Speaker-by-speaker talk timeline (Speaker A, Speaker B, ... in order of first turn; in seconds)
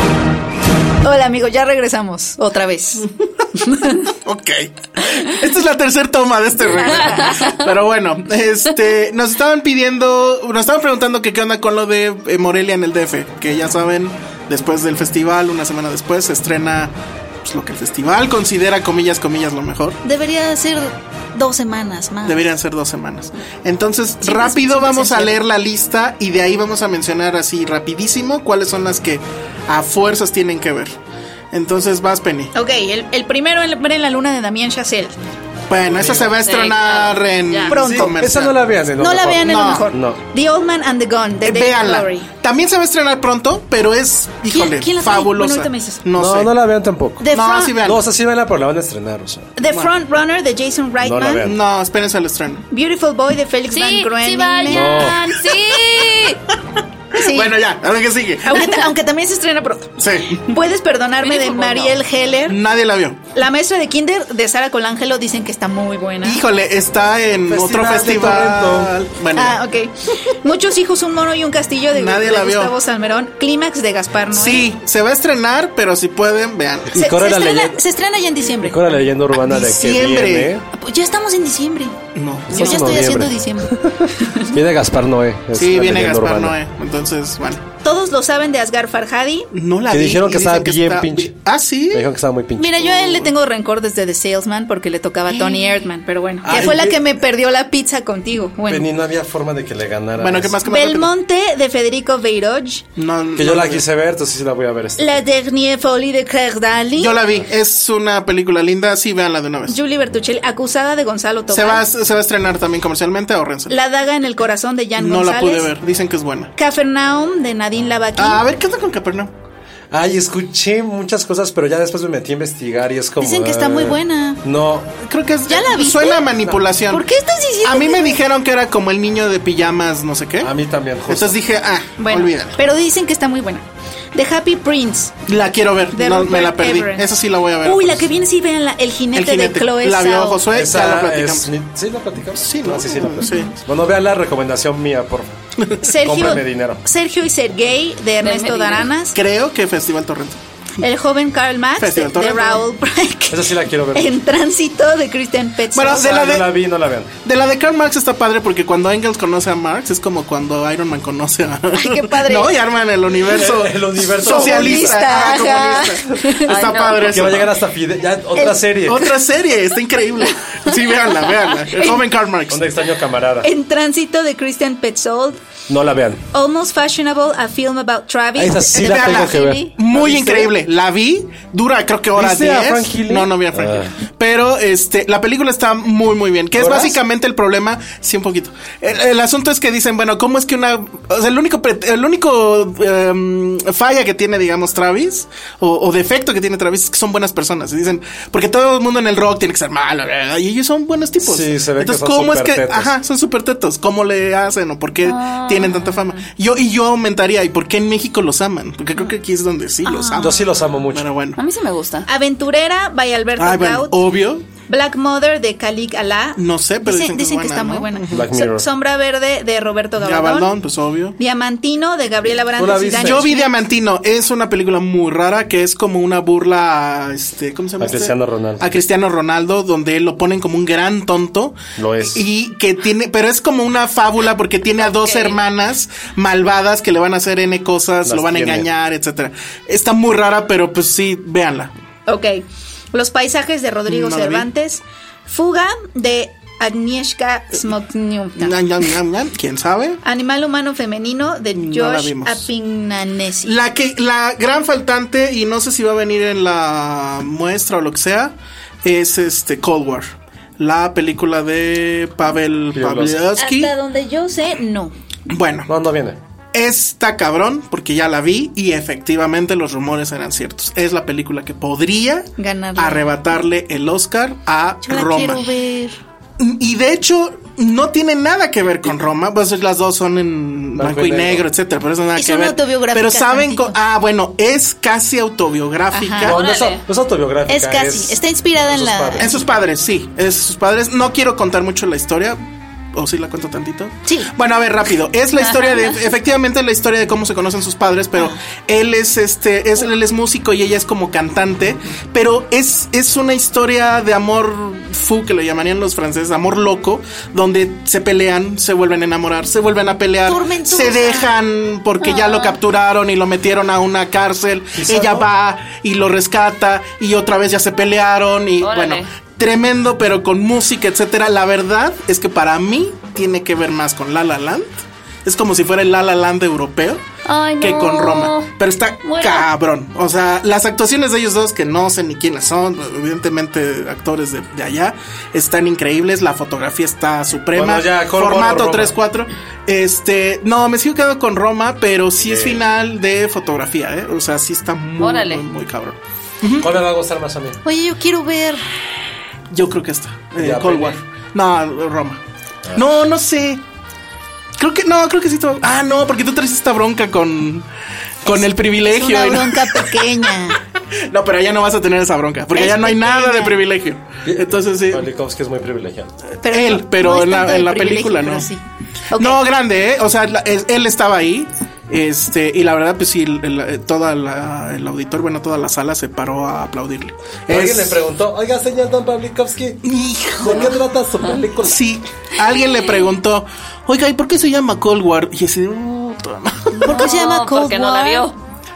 Speaker A: 1.0-4.1, 6.6-7.6, 20.0-22.5, 24.2-25.4, 32.5-35.1, 37.7-38.2, 39.0-42.3, 44.5-46.0, 47.2-47.8, 49.6-51.5, 52.7-55.4, 57.1-57.6, 58.4-62.6, 63.4-66.4, 69.3-74.7, 76.9-79.0, 80.7-82.0, 82.5-84.6, 87.8-89.5, 92.6-98.9, 100.7-102.8, 105.0-107.2, 109.7-111.8, 113.7-115.7, 116.6-118.4, 123.2-124.4, 125.5-126.3, 126.9-128.2, 132.0-135.2, 135.9-137.1, 137.6-140.4, 143.2-143.5, 145.8-149.2, 150.8-156.2, 161.8-162.6, 164.2-166.6, 168.4-169.1, 173.4-175.4, 176.3-179.8, 209.9-210.3, 212.1-214.0, 214.7-220.5, 221.2-223.5, 242.1-248.6, 250.0-253.6, 263.4-264.9, 272.4-273.1, 274.8-276.0, 282.2-283.7, 285.9-286.4, 287.5-289.4, 310.3-311.3, 347.6-348.6, 358.3-360.6, 362.5-363.6, 366.4-368.6, 369.1-369.4, 386.8-388.3
Speaker B: 4.2-20.0, 22.2-30.9, 31.5-32.5, 35.7-38.6, 39.4-39.9, 41.4-46.5, 47.3-48.0, 51.4-52.6, 57.2-58.8, 60.0-60.5, 62.5-63.2, 66.2-69.6, 71.9-72.8, 74.3-77.0, 79.4-80.6, 82.2-83.1, 85.5-87.6, 89.5-92.1, 96.5-96.9, 100.2-101.1, 103.0-103.8, 107.0-109.8, 111.5-113.8, 115.0-116.5, 118.2-119.3, 125.0-127.1, 127.6-130.5, 131.1-132.6, 135.3-138.1, 139.1-141.5, 142.4-143.5, 149.1-150.4, 151.8-152.6, 155.7-156.5, 157.2-167.5, 168.8-172.7, 178.7-211.4, 213.4-214.5, 216.4-218.2, 220.0-221.2, 223.0-241.7, 243.9-244.5, 248.4-250.0, 251.6-252.5, 253.4-263.7, 265.3-265.7, 266.5-275.5, 276.4-286.4, 289.2-292.4, 292.9-327.0, 327.6-346.7, 349.5-352.2, 352.7-353.6, 354.6-357.7, 358.2-360.1, 361.1-365.1, 366.5-368.5, 369.2-378.0, 379.8-380.8, 381.6-387.1
Speaker C: 35.9-36.2, 37.8-40.2, 46.2-47.3, 47.8-49.5, 51.0-51.6, 54.7-55.2, 67.5-68.9, 76.9-77.8, 78.6-80.7, 82.5-86.6, 89.9-91.3, 91.9-93.0, 96.4-97.0, 98.7-100.6, 103.4-105.2, 119.9-124.9, 130.4-131.4, 140.5-145.3, 146.0-146.8, 153.3-154.2, 155.8-157.1, 163.2-165.1, 167.1-169.1, 172.5-173.5, 175.7-176.2, 178.4-180.2, 182.2-183.9, 186.6-187.0, 201.2-202.9, 210.2-211.1, 218.1-218.7, 222.6-223.3, 227.8-228.7, 231.8-232.2, 238.1-238.7, 262.7-263.2, 265.7-266.2, 280.8-281.5, 286.2-289.4, 314.8-315.3, 337.5-339.0, 342.2-342.6, 346.6-347.6, 350.4-351.0, 352.6-352.9, 364.2-366.1, 377.5-379.9, 380.4-381.8
Speaker D: 36.2-37.8, 53.7-56.4, 61.2-61.9, 148.2-148.9, 166.5-167.3, 205.0-206.2, 211.4-212.1, 234.8-235.4, 286.2-286.8, 318.6-319.1, 327.2-328.5, 329.0-329.5, 345.0-345.4, 386.9-388.4